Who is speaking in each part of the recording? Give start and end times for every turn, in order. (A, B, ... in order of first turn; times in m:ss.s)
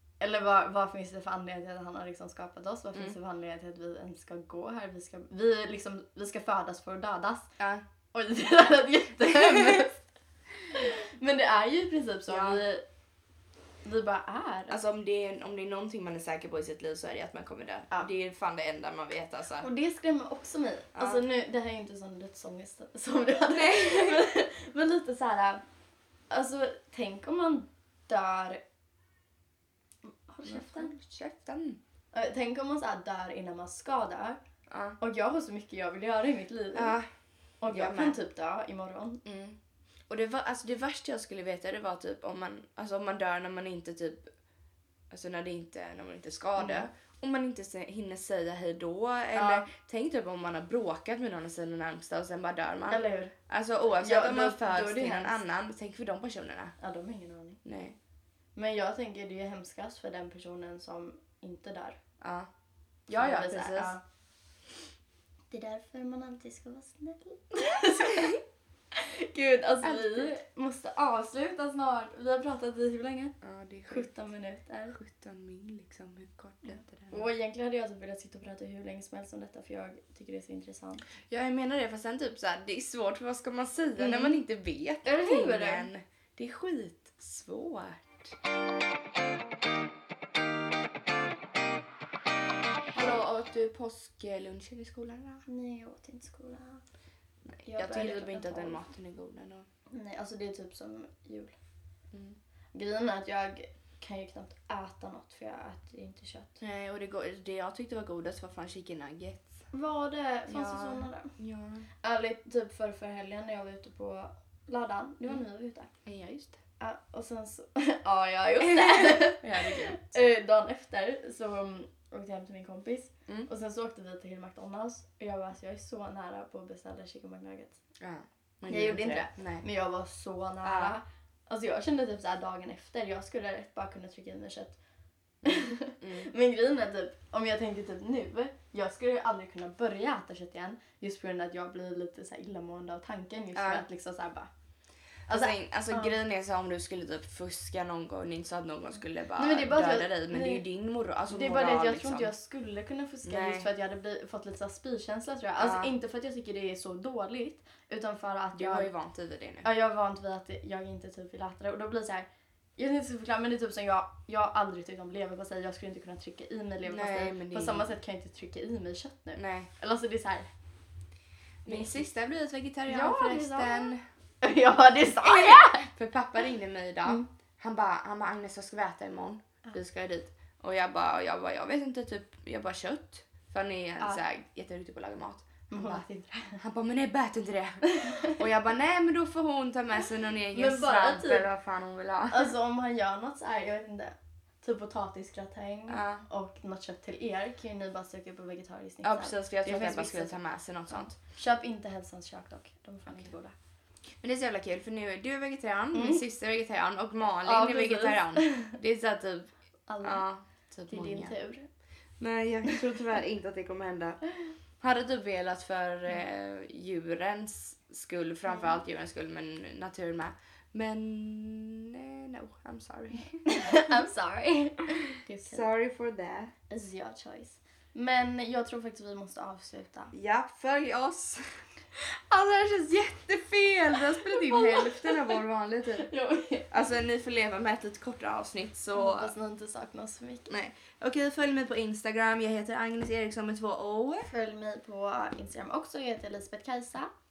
0:00.2-0:07.5 A
0:07.6-0:07.8 B
0:08.1-0:10.0 A
0:10.6-0:12.8 A
0:12.3-0:12.6 B
0:13.8-0:14.8 A
0:14.7-0:19.7 B
0:19.6-0:25.6 A
0:20.9-0:21.2 B
0:23.5-0:24.2 B
0:26.3-0:28.6 A
0:30.1-0:30.9 A
0:30.4-0:31.8 B
0:32.1-0:34.4 A
0:34.7-0:35.0 B
0:35.0-0:37.0 A
0:36.7-0:37.1 B
0:37.6-0:39.2 A
0:37.7-0:38.2 B
0:39.2-0:39.6 B
0:40.1-0:44.3 B
0:45.1-0:56.7 B
0:46.6-0:46.8 A
0:49.3-0:49.7 A
0:52.9-0:53.3 A
0:54.0-0:55.4 A
0:56.8-0:57.6 A
0:57.6-0:58.0 B
0:58.6-1:02.0 A
1:02.2-1:02.5 B
1:03.1-1:04.0 B
1:03.1-1:04.0 A
1:05.5-1:08.4 A
1:08.1-1:08.4 B
1:08.9-1:13.3 A
1:09.8-1:10.4 B
1:13.4-1:14.1 B
1:13.9-1:15.0 A
1:14.9-1:17.3 B
1:16.7-1:21.0 A
1:21.3-1:28.3 B
1:24.0-1:24.4 A
1:25.0-1:25.9 A
1:32.9-1:35.4 B
1:35.5-1:36.8 A
1:37.6-1:39.6 B
1:37.7-1:38.8 A
1:39.9-1:41.5 A
1:42.1-1:42.4 B
1:42.7-1:46.6 A
1:46.6-1:49.6 B
1:49.7-1:51.3 A
1:50.5-1:51.9 B
1:52.0-1:55.9 A
1:56.0-1:56.6 B
1:56.8-2:07.8 A
1:58.6-2:00.1 B
2:08.0-2:09.6 B
2:08.7-2:14.8 A
2:10.6-2:11.0 B
2:15.4-2:24.5 A
2:16.0-2:16.3 B
2:23.5-2:23.8 B
2:25.3-2:26.1 A
2:25.3-2:32.3 B
2:29.4-2:30.6 A
2:31.3-2:38.9 A
2:33.2-2:33.7 B
2:35.6-2:35.9 B
2:38.5-2:39.7 B
2:39.6-2:50.5 A
2:46.8-2:47.9 B
2:49.4-2:49.7 B
2:51.6-2:52.0 A
2:51.6-2:54.0 B
2:52.8-2:55.8 A
2:55.2-3:06.0 B
3:05.7-3:06.6 A
3:06.6-3:12.5 B
3:07.9-3:08.4 A
3:10.5-3:11.5 A
3:12.3-3:20.4 A
3:15.9-3:16.2 B
3:19.0-3:21.2 B
3:20.9-3:23.5 A
3:24.2-3:29.5 B
3:25.9-3:26.2 A
3:27.4-3:28.7 A
3:29.9-3:30.2 A
3:30.0-3:31.3 B
3:30.9-3:31.6 A
3:32.2-3:34.2 B
3:34.8-3:44.0 B
3:38.5-3:38.8 A
3:43.4-3:45.7 A
3:45.1-3:46.5 B
3:46.7-3:50.1 A
3:50.1-3:56.1 B
3:54.2-3:55.4 A
3:56.0-3:56.7 A
3:56.7-3:59.3 B
3:58.9-4:00.5 A
4:00.5-4:04.3 B
4:04.3-4:07.1 A